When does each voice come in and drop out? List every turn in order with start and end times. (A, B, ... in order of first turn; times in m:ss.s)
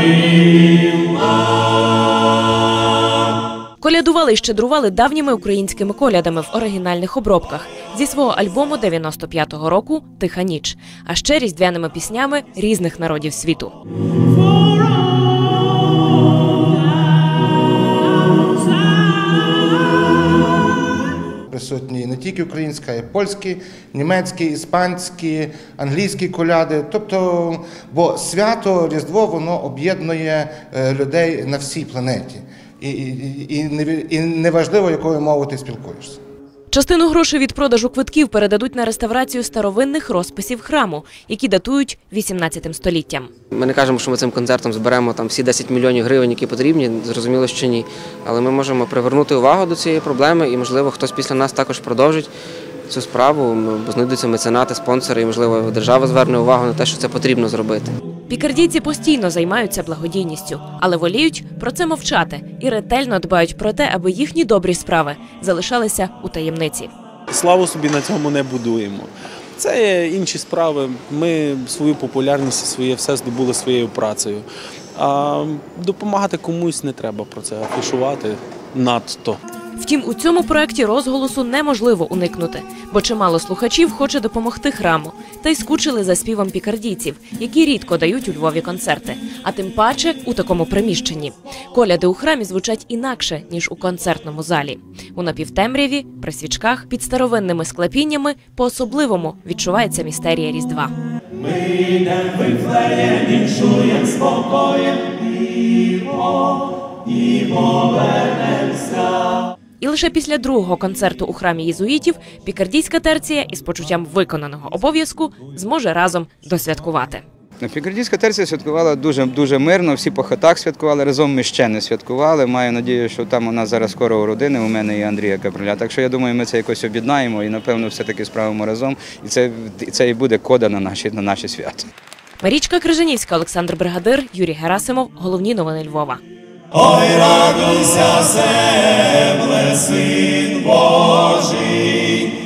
0:03.8-0:13.7 A
0:21.5-0:36.2 B
0:36.7-0:43.3 A
0:43.6-0:52.3 C
0:52.9-0:57.9 C
0:58.3-1:06.9 A
1:07.3-1:19.4 D
1:19.8-1:40.9 A
1:42.4-1:44.4 E
1:49.8-1:57.2 A
1:57.6-2:11.8 F
2:12.4-2:16.2 A
2:16.9-2:22.1 E